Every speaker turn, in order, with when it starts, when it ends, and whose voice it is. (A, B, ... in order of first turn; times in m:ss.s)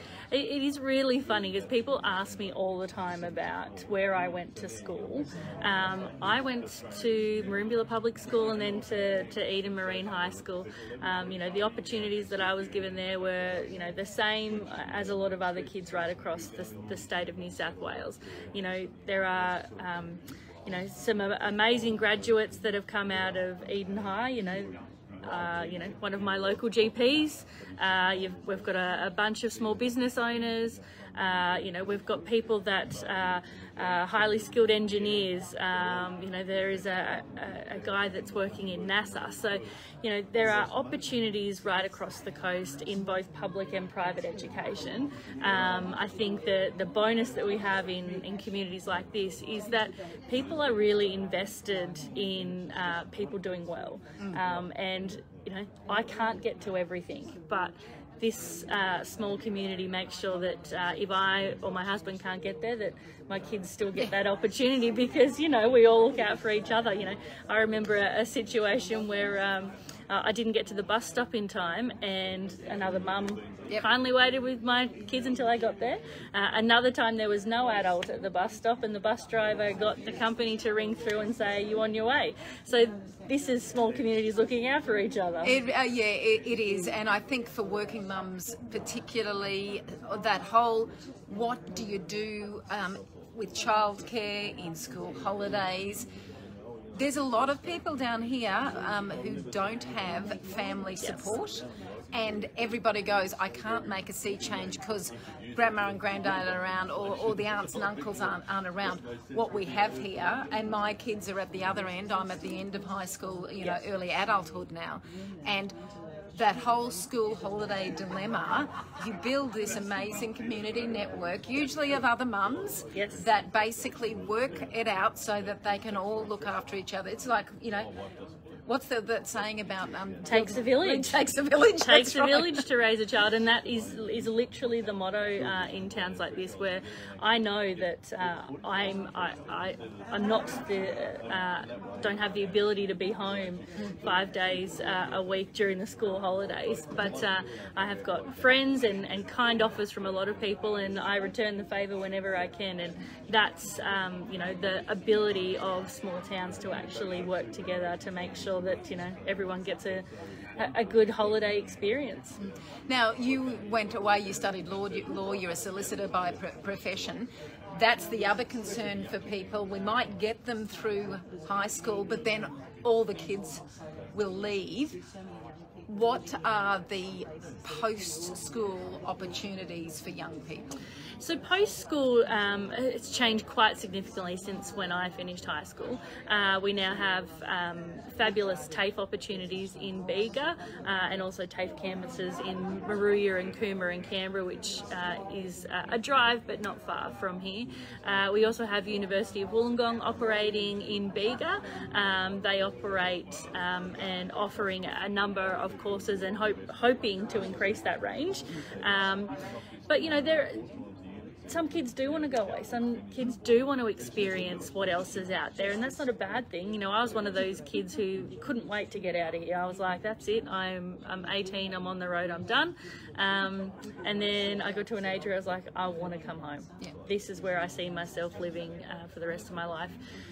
0:00.3-0:24.7 A
0:25.3-1:25.6 A
1:25.4-1:36.1 B
1:36.9-1:55.7 B
1:41.0-1:41.3 A
1:56.3-2:07.9 B
2:03.0-2:03.2 A
2:08.7-2:12.6 B
2:10.3-2:11.2 A
2:11.8-2:40.0 A
2:40.6-2:42.4 A
2:42.4-2:55.0 B
2:55.9-3:00.8 B
3:01.2-3:29.3 A
3:29.9-3:30.7 A
3:31.5-3:50.0 A